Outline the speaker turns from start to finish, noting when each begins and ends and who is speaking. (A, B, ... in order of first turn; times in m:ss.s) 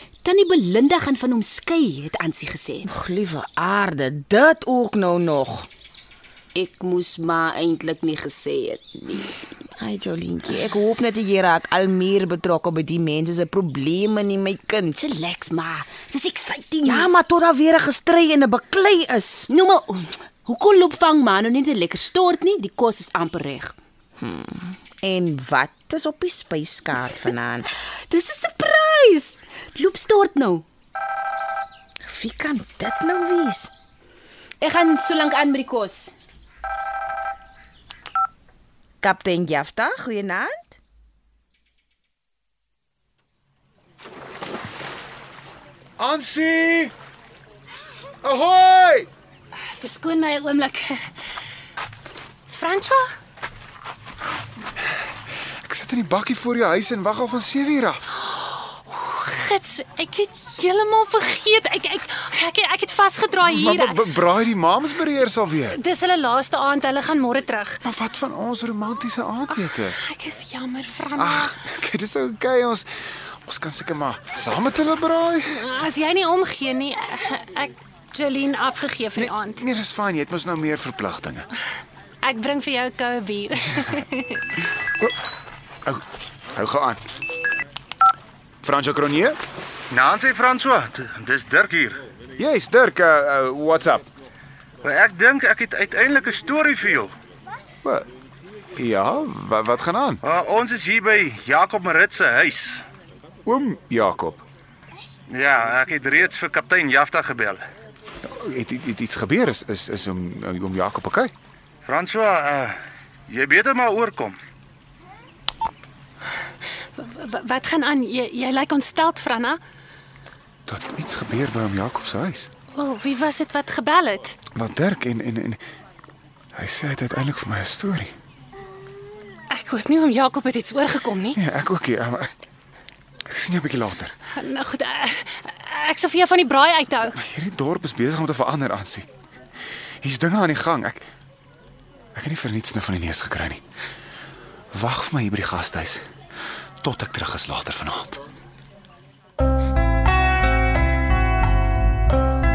0:00.2-0:02.8 A
0:02.8-0:05.7 B
0:06.5-0:09.4 A
0:09.8-0:15.0 B
0:15.0-0:17.1 A
0:16.8-0:19.5 B
0:19.5-0:23.7 A
0:24.2-0:27.6 B
0:28.1-0:30.6 A
0:32.1-0:33.7 B
0:34.6-0:36.1 A
0:39.0-0:40.8 B
0:46.0-0:46.9 C
0:48.2-0:49.1 C
0:49.7-0:51.0 D
0:52.5-0:53.0 D
0:55.6-0:58.1 C
0:58.2-1:04.1 D
1:03.4-1:05.8 C
1:05.7-1:07.8 D
1:07.8-1:10.0 C
1:09.5-1:11.6 D
1:11.2-1:12.9 C
1:13.5-1:15.6 C
1:15.5-1:19.6 D
1:19.2-1:21.5 C
1:22.2-1:24.4 D
1:26.5-1:27.0 C
1:28.6-1:29.4 C
1:29.9-1:32.0 E
1:32.4-1:34.0 C
1:34.8-1:37.1 E
1:38.7-1:40.2 C
1:40.2-1:42.8 E
1:43.4-1:44.4 C
1:45.3-1:47.6 E
1:48.2-1:51.3 C
1:51.8-1:52.8 E
1:53.3-1:54.4 E
1:57.0-1:59.6 D
2:00.7-2:02.5 C
2:02.7-2:04.4 D
2:04.5-2:05.6 C
2:06.6-2:08.1 C
2:09.5-2:11.4 D
2:11.4-2:12.3 C
2:13.3-2:14.1 C
2:14.4-2:17.2 D
2:17.2-2:19.1 C
2:20.0-2:21.0 C
2:22.1-2:23.6 C
2:24.7-2:26.0 C
2:26.8-2:28.2 C